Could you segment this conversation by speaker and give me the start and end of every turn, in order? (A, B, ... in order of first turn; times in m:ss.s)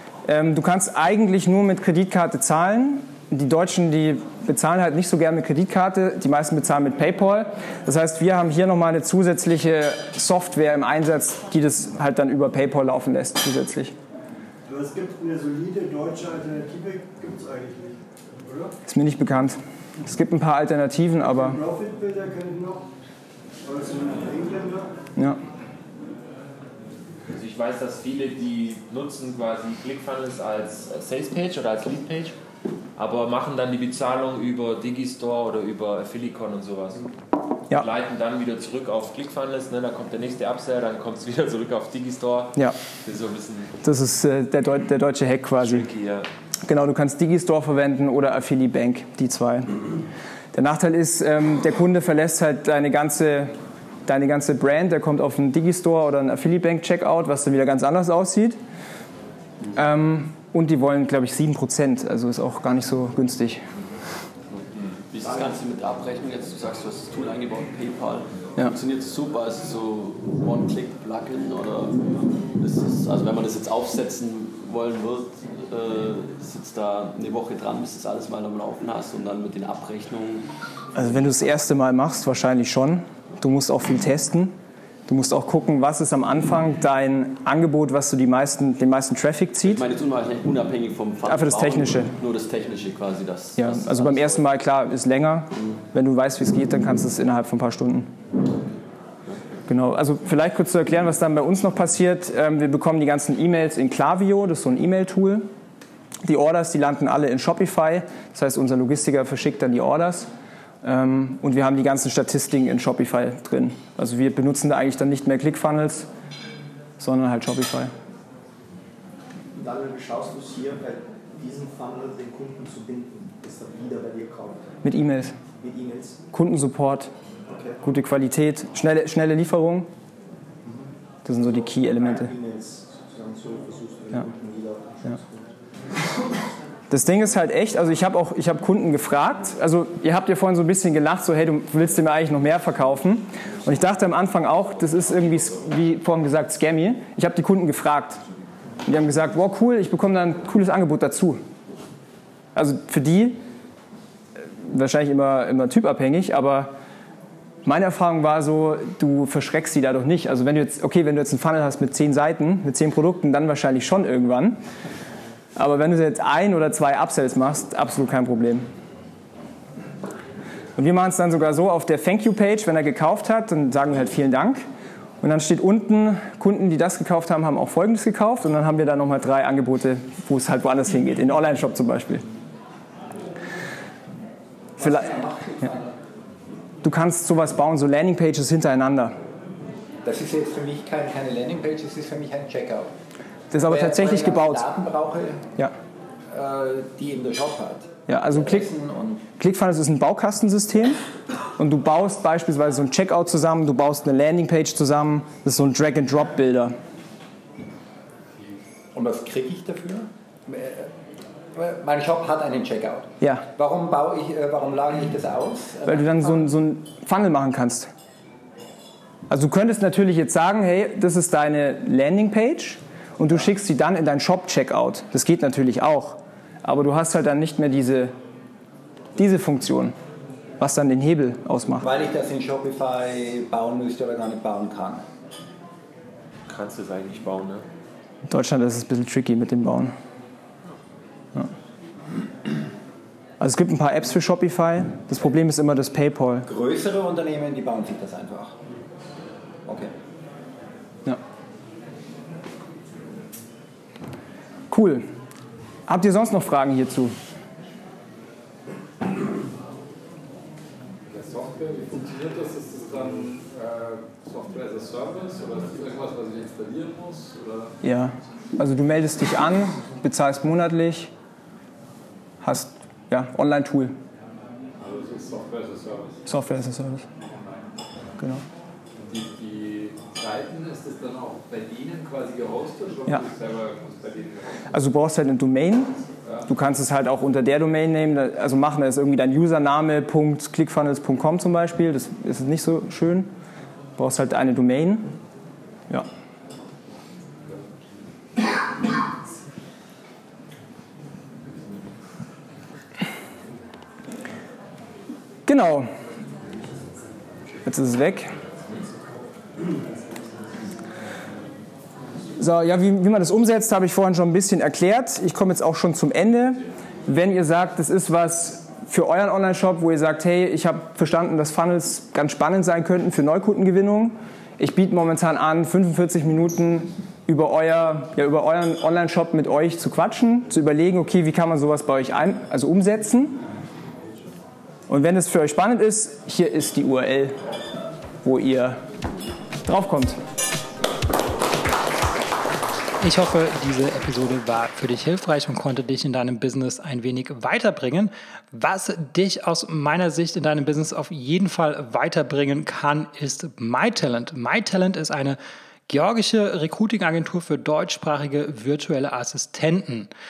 0:00.2-0:13.9 A
0:14.6-0:18.7 B
0:18.8-0:21.6 A
0:21.4-0:22.8 B
0:23.6-0:24.9 B
0:27.3-0:32.3 C
0:33.0-0:37.1 C
0:37.7-0:43.7 C
0:43.8-0:45.9 A
0:45.6-0:46.3 C
0:46.6-0:49.8 A
0:50.5-0:53.5 A
0:54.0-0:58.6 A
0:59.7-1:03.6 A
1:04.5-1:20.5 D
1:20.9-1:24.5 A
1:25.1-1:29.8 A
1:29.6-1:34.5 D
1:31.2-1:32.1 A
1:33.6-1:38.1 A
1:39.7-1:45.5 A
1:46.2-1:50.3 A
1:50.8-1:56.1 A
1:57.0-1:57.9 A
1:59.6-2:04.7 E
2:04.8-2:05.3 A
2:05.6-2:06.2 E
2:06.3-2:07.1 A
2:07.5-2:07.8 E
2:07.8-2:09.9 A
2:10.6-2:15.5 E
2:11.2-2:12.3 A
2:16.9-2:28.2 A
2:28.8-2:31.4 A
2:32.5-2:33.4 A
2:34.6-2:36.7 A
2:37.6-2:44.6 A
2:45.6-2:48.7 A
2:50.8-2:54.6 A
2:55.2-3:02.2 A
3:04.8-3:05.8 F
3:04.8-3:05.2 A
3:06.8-3:09.1 A
3:10.0-3:12.9 F
3:13.5-3:14.7 A
3:13.6-3:15.4 F
3:16.3-3:19.2 F
3:18.1-3:18.7 A
3:19.4-3:21.0 A
3:21.6-3:26.7 A
3:28.9-3:30.9 F
3:31.5-3:36.4 F
3:35.8-3:37.9 A
3:39.3-3:48.1 A
3:49.2-3:49.9 A
3:50.6-3:51.8 A
3:51.8-3:55.0 F
3:56.5-3:57.6 C
3:58.3-3:59.9 A
4:03.4-4:06.4 A
4:06.5-4:08.5 F
4:09.6-4:09.9 F
4:14.7-4:15.0 A
4:15.9-4:17.2 A
4:21.0-4:27.8 G
4:27.8-4:31.1 A
4:32.4-4:33.9 A
4:34.8-4:36.2 G
4:36.2-4:37.0 A
4:37.2-4:37.7 G
4:38.9-4:44.6 G
4:44.7-4:53.3 A
4:46.2-4:46.5 G
4:54.0-4:55.1 A
5:05.4-5:05.9 A
5:07.6-5:08.3 A
5:12.4-5:33.4 A
5:34.9-5:37.4 A
5:38.2-5:38.8 A
5:39.6-5:40.2 A
5:43.0-6:00.1 H